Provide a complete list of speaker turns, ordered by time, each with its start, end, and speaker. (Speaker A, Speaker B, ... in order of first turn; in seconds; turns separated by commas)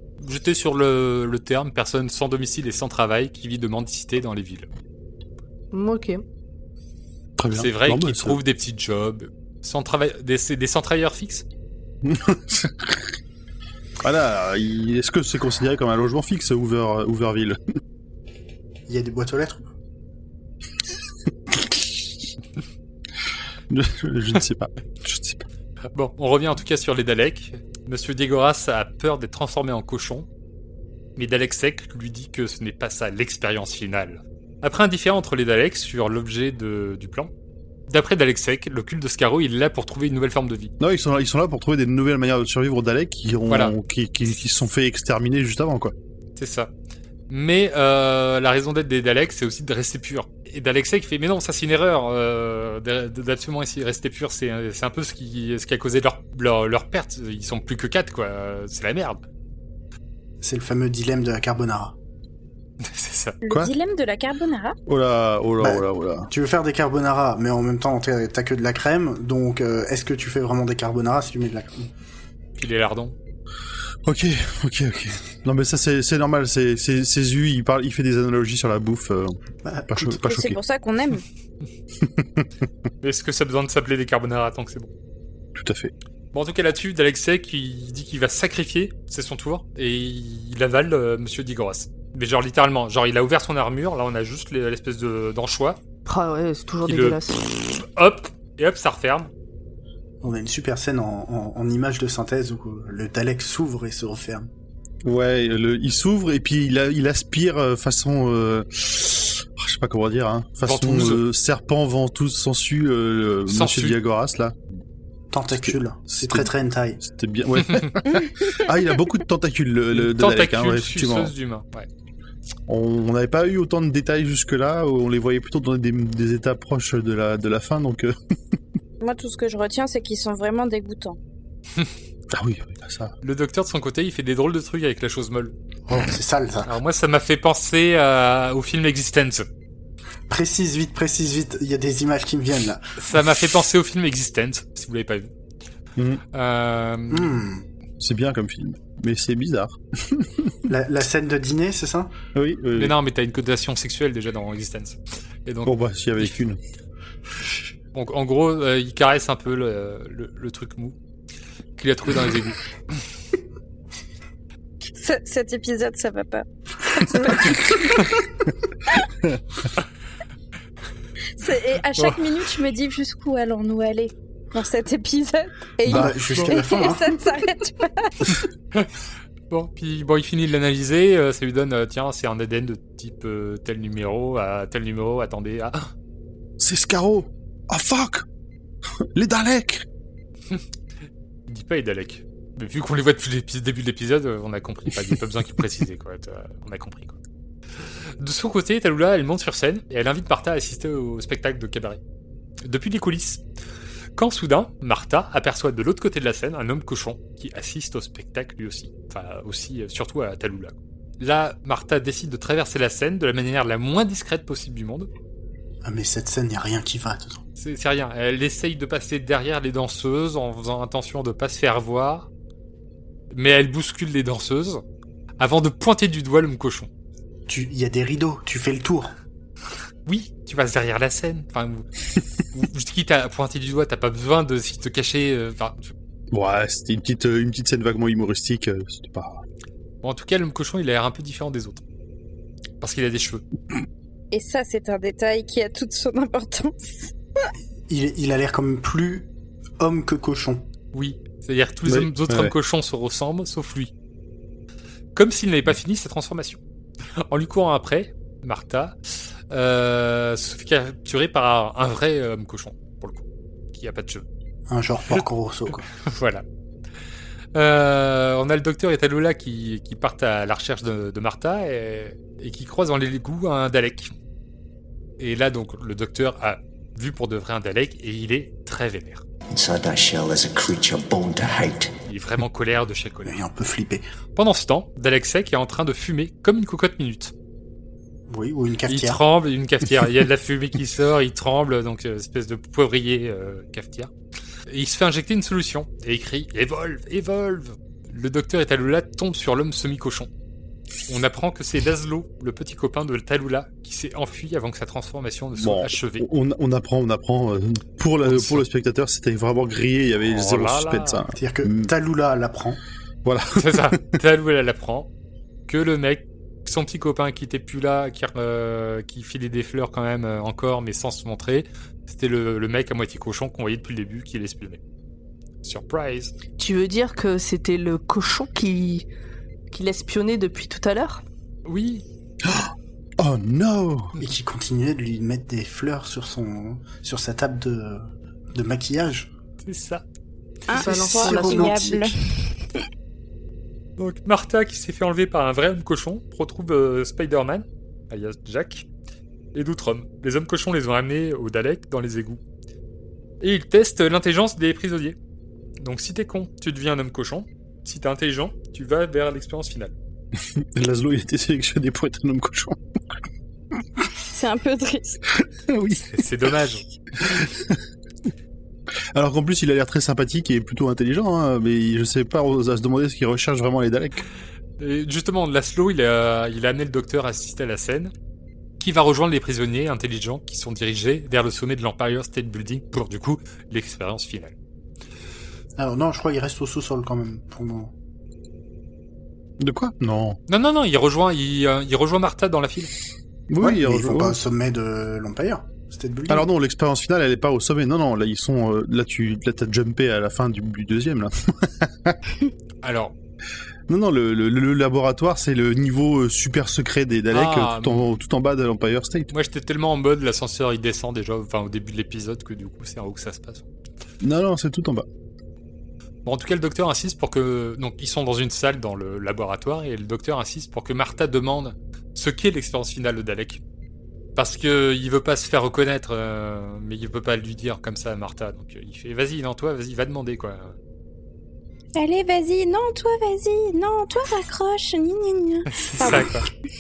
Speaker A: 0.2-4.7, Speaker B: 5.7-6.2, Speaker C: 7.4-8.4, Speaker A: 7.5-11.4, Speaker C: 12.0-13.1, Speaker C: 14.0-17.6, Speaker D: 18.9-19.7, Speaker C: 21.5-22.0, Speaker C: 23.7-25.5, Speaker A: 25.9-30.3, Speaker A: 31.2-37.3, Speaker A: 37.9-40.7, Speaker C: 40.8-45.9, Speaker A: 46.4-46.7, Speaker A: 47.3-59.2, Speaker D: 60.4-62.0, Speaker A: 62.8-63.4, Speaker E: 63.4-64.8, Speaker C: 64.9-66.3, Speaker D: 65.6-71.9, Speaker A: 72.6-73.2, Speaker C: 74.0-79.4, Speaker D: 79.7-80.2, Speaker C: 79.9-80.6, Speaker E: 80.2-81.2, Speaker C: 82.0-82.5, Speaker A: 83.0-84.9, Speaker C: 85.5-85.9, Speaker A: 86.3-95.8, Speaker B: 96.1-97.4, Speaker A: 96.8-99.3, Speaker D: 100.2-104.5, Speaker C: 105.0-114.6, Speaker A: 110.6-111.2, Speaker A: 113.5-114.0, Speaker D: 115.3-117.0, Speaker C: 115.5-116.5, Speaker C: 117.0-121.3, Speaker A: 119.9-121.9, Speaker C: 122.7-128.2, Speaker E: 129.0-131.2, Speaker C: 132.3-133.1, Speaker A: 133.2-135.5, Speaker D: 135.9-136.7, Speaker A: 136.7-139.5, Speaker D: 140.3-142.8, Speaker A: 143.0-145.3, Speaker A: 146.3-147.4, Speaker D: 147.1-147.7, Speaker C: 148.0-150.7, Speaker D: 150.7-152.1, Speaker C: 152.3-152.9, Speaker A: 152.8-156.4, Speaker C: 155.7-156.6, Speaker A: 157.9-160.9, Speaker A: 161.8-162.6, Speaker E: 164.9-168.3, Speaker E: 171.4-178.4, Speaker C: 175.9-176.5, Speaker D: 175.9-177.2, Speaker A: 179.5-185.9, Speaker C: 186.6-188.2, Speaker C: 189.0-189.9, Speaker A: 191.5-197.2, Speaker A: 197.8-202.0, Speaker A: 202.6-203.4, Speaker A: 204.2-215.1, Speaker D: 215.8-217.4, Speaker A: 217.6-222.3, Speaker A: 223.3-224.8, Speaker A: 225.4-226.9, Speaker D: 227.5-229.2, Speaker A: 230.1-231.9, Speaker A: 232.5-235.9, Speaker C: 236.3-239.4, Speaker A: 240.0-241.8, Speaker A: 242.8-243.4, Speaker E: 244.3-247.1, Speaker D: 247.9-249.3, Speaker D: 249.8-250.7, Speaker A: 250.9-253.9, Speaker C: 251.9-252.5, Speaker A: 255.2-256.6, Speaker A: 257.3-259.0, Speaker A: 259.5-264.2, Speaker D: 264.7-265.9, Speaker A: 266.0-266.4, Speaker A: 267.6-274.1, Speaker A: 275.2-279.2, Speaker F: 279.6-281.9, Speaker A: 282.1-283.4, Speaker D: 283.3-284.0, Speaker A: 284.4-287.3, Speaker D: 288.3-289.2, Speaker A: 288.9-294.1, Speaker A: 294.7-300.3, Speaker A: 301.1-306.3, Speaker C: 305.6-311.9, Speaker A: 308.2-308.6, Speaker A: 310.3-311.2, Speaker D: 311.4-312.8, Speaker C: 313.2-314.0, Speaker A: 313.6-315.1, Speaker A: 315.7-324.8, Speaker A: 325.6-326.3, Speaker B: 326.6-329.1, Speaker B: 329.7-331.2, Speaker A: 331.7-332.1, Speaker C: 332.4-334.1, Speaker D: 334.2-339.3, Speaker A: 339.6-340.0, Speaker E: 340.7-342.1, Speaker B: 340.7-341.9, Speaker D: 340.7-342.1, Speaker A: 344.0-348.9, Speaker A: 349.5-352.4, Speaker A: 353.4-355.2, Speaker A: 355.8-359.9, Speaker C: 360.5-362.8, Speaker E: 364.3-365.2, Speaker C: 365.6-366.1, Speaker A: 366.1-366.9, Speaker C: 367.1-367.8, Speaker C: 369.1-374.2, Speaker A: 374.8-378.1, Speaker A: 378.8-384.6, Speaker D: 385.8-387.9, Speaker C: 389.6-390.4, Speaker A: 390.5-392.9, Speaker C: 393.5-394.4, Speaker D: 393.6-396.5, Speaker C: 396.3-402.2, Speaker A: 402.8-403.1, Speaker C: 403.9-409.3, Speaker A: 407.3-408.1, Speaker A: 409.3-413.6, Speaker C: 414.2-415.1, Speaker A: 416.2-423.6, Speaker A: 424.4-430.8, Speaker E: 432.0-436.4, Speaker A: 435.7-436.5